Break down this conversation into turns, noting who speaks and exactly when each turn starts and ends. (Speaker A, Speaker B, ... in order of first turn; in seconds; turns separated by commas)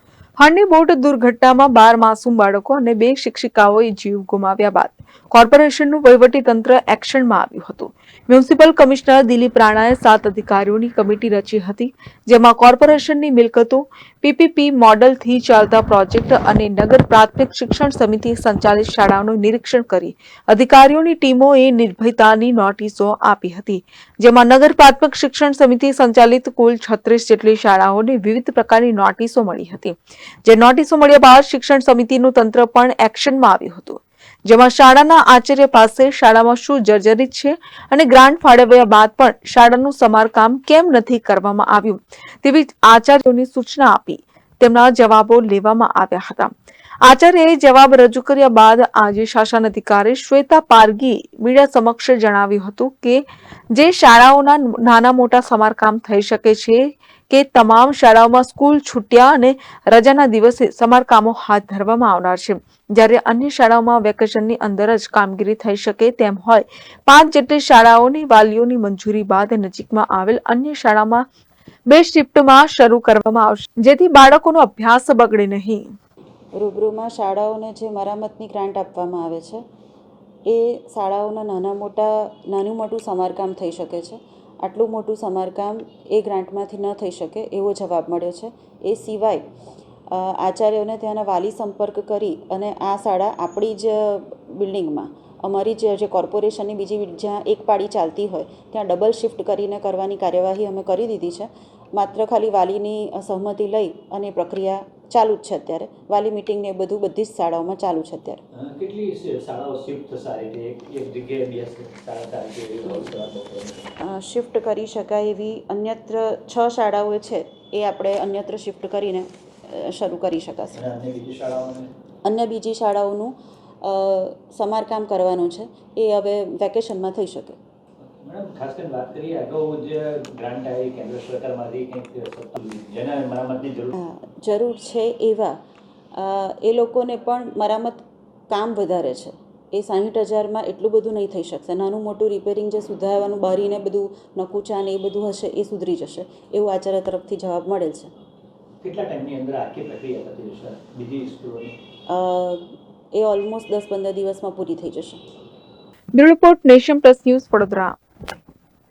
Speaker A: 0.4-71.2, Speaker A: 71.9-75.9, Speaker B: 76.5-79.6, Speaker B: 80.4-89.5, Speaker B: 90.1-108.4, Speaker C: 108.5-113.9, Speaker B: 114.0-120.8, Speaker C: 120.7-121.9, Speaker B: 122.2-127.6, Speaker C: 128.1-133.9, Speaker B: 133.9-135.6, Speaker B: 136.1-148.1, Speaker C: 148.8-151.8, Speaker B: 152.1-155.2, Speaker A: 156.1-157.9